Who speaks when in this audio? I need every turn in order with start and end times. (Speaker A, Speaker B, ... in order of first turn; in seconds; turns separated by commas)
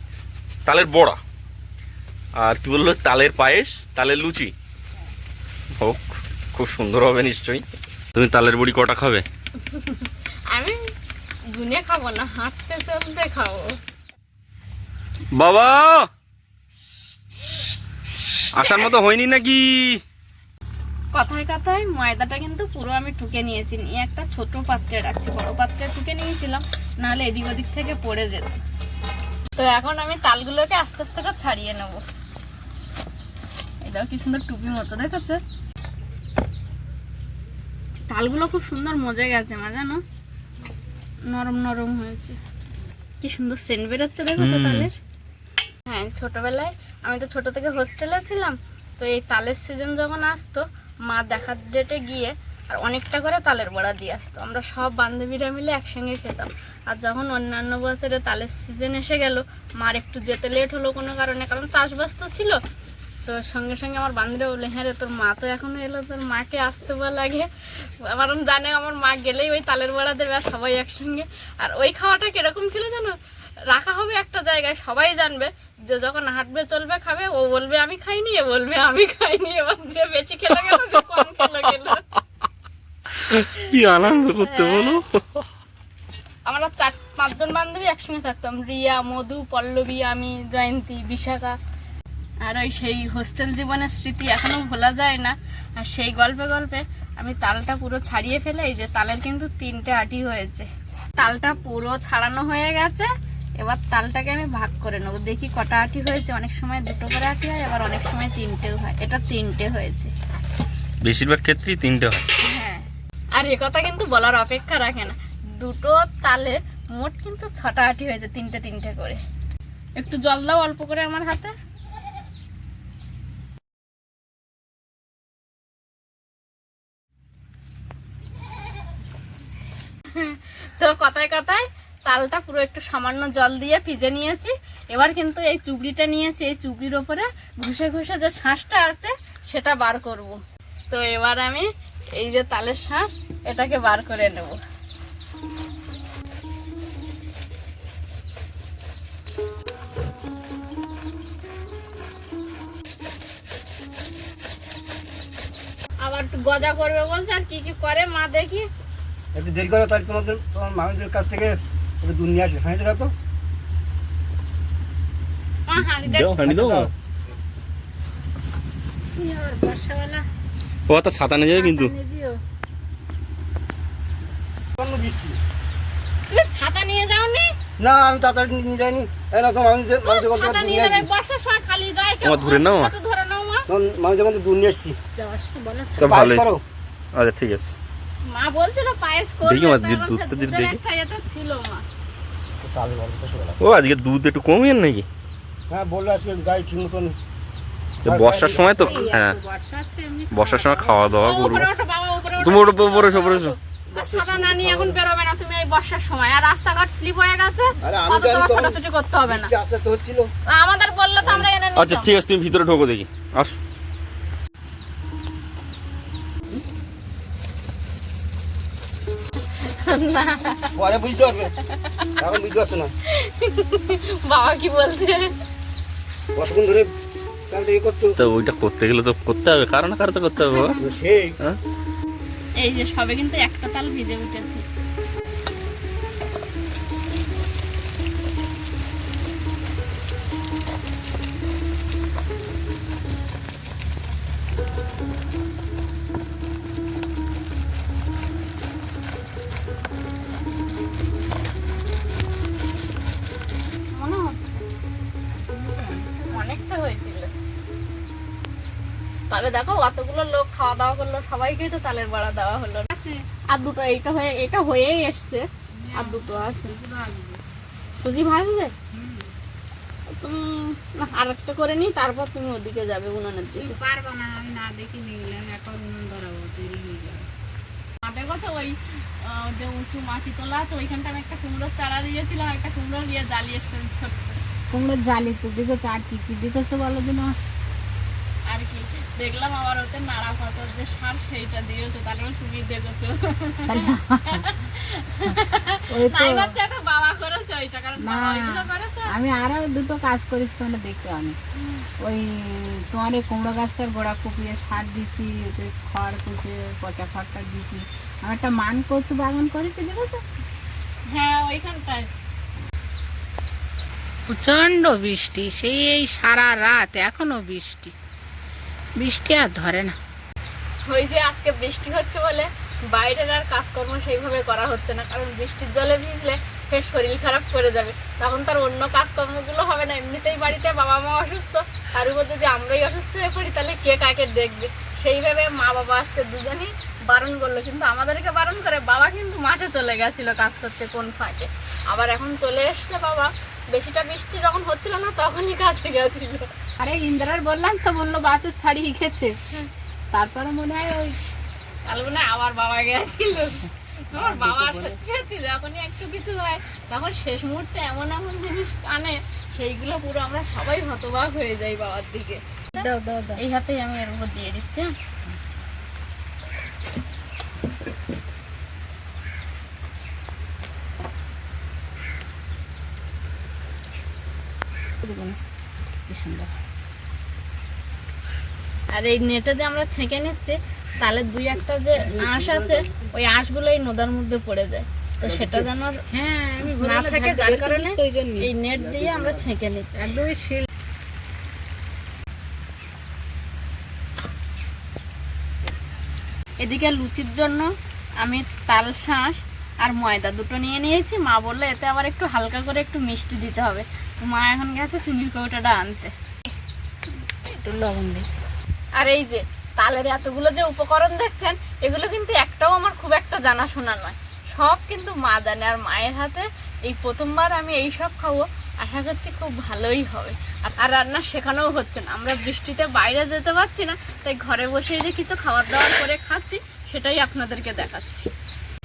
Speaker A: 0.7-1.2, Speaker A: 2.4-4.5, Speaker A: 5.8-9.2, Speaker B: 9.6-10.8, Speaker B: 11.5-13.7, Speaker A: 15.3-16.1, Speaker A: 18.5-20.0, Speaker B: 21.1-28.5, Speaker B: 29.6-32.0, Speaker B: 33.8-35.4, Speaker B: 38.1-40.0, Speaker B: 41.3-42.4, Speaker B: 43.2-44.9, Speaker A: 44.4-44.9, Speaker B: 45.9-62.6, Speaker B: 63.2-67.5, Speaker B: 68.0-73.1, Speaker B: 73.7-82.0, Speaker A: 80.7-81.2, Speaker A: 83.2-85.4, Speaker B: 84.4-85.0, Speaker B: 86.5-91.5, Speaker B: 92.4-103.1, Speaker B: 103.6-110.1, Speaker A: 111.0-112.2, Speaker B: 112.5-112.8, Speaker B: 113.4-119.2, Speaker B: 120.0-121.5, Speaker B: 130.1-140.4, Speaker B: 140.9-144.6, Speaker B: 156.0-158.7, Speaker C: 159.3-163.1, Speaker B: 165.7-166.3, Speaker A: 166.0-166.9, Speaker C: 166.4-166.9, Speaker D: 169.1-170.2, Speaker A: 170.9-171.9, Speaker D: 171.5-172.4, Speaker C: 174.8-175.4, Speaker B: 176.3-177.5, Speaker C: 177.8-181.1, Speaker B: 180.0-183.7, Speaker A: 182.2-182.9, Speaker C: 183.7-185.0, Speaker D: 185.2-186.2, Speaker A: 186.0-186.5, Speaker C: 186.0-186.6, Speaker A: 187.1-187.7, Speaker B: 188.2-191.8, Speaker A: 189.4-190.8, Speaker C: 192.6-193.6, Speaker A: 193.6-195.1, Speaker C: 195.7-197.2, Speaker A: 198.0-199.4, Speaker C: 198.0-199.0, Speaker D: 198.5-201.6, Speaker A: 200.3-201.7, Speaker B: 201.2-209.5, Speaker A: 202.4-203.5, Speaker C: 203.9-205.0, Speaker C: 207.8-210.3, Speaker B: 210.5-212.1, Speaker C: 211.2-211.5, Speaker A: 211.8-213.6, Speaker B: 219.7-220.7, Speaker C: 220.7-221.5, Speaker B: 221.8-222.1, Speaker C: 222.2-222.9, Speaker B: 223.1-225.3, Speaker C: 226.3-226.9, Speaker C: 227.5-228.2, Speaker A: 228.2-230.8, Speaker B: 230.4-230.8, Speaker C: 230.8-231.3, Speaker B: 232.6-234.6, Speaker B: 253.9-254.7, Speaker D: 255.3-256.6, Speaker B: 256.3-257.3, Speaker B: 259.3-262.9, Speaker D: 262.9-263.2, Speaker B: 263.5-266.7, Speaker D: 265.7-267.4, Speaker B: 268.0-268.7, Speaker D: 268.9-269.3, Speaker B: 270.2-273.8, Speaker D: 273.5-277.3, Speaker B: 278.0-284.4, Speaker D: 284.7-287.4, Speaker B: 288.5-299.1, Speaker D: 293.7-294.5, Speaker D: 295.9-296.5, Speaker D: 298.0-301.4, Speaker D: 302.0-310.2, Speaker B: 311.1-312.1, Speaker D: 314.3-317.9, Speaker D: 319.0-319.9, Speaker B: 320.9-346.5, Speaker D: 346.8-349.4, Speaker D: 350.1-351.2, Speaker B: 351.9-364.9, Speaker D: 354.1-355.0, Speaker D: 362.8-363.4, Speaker D: 375.0-375.4, Speaker D: 376.1-376.5, Speaker B: 378.9-386.0, Speaker C: 382.0-383.1, Speaker C: 385.2-385.7, Speaker D: 386.1-388.5, Speaker B: 386.8-390.1, Speaker C: 388.7-389.5, Speaker D: 390.0-390.7, Speaker B: 396.6-397.7, Speaker B: 398.2-406.1, Speaker D: 407.4-408.3, Speaker B: 409.0-428.3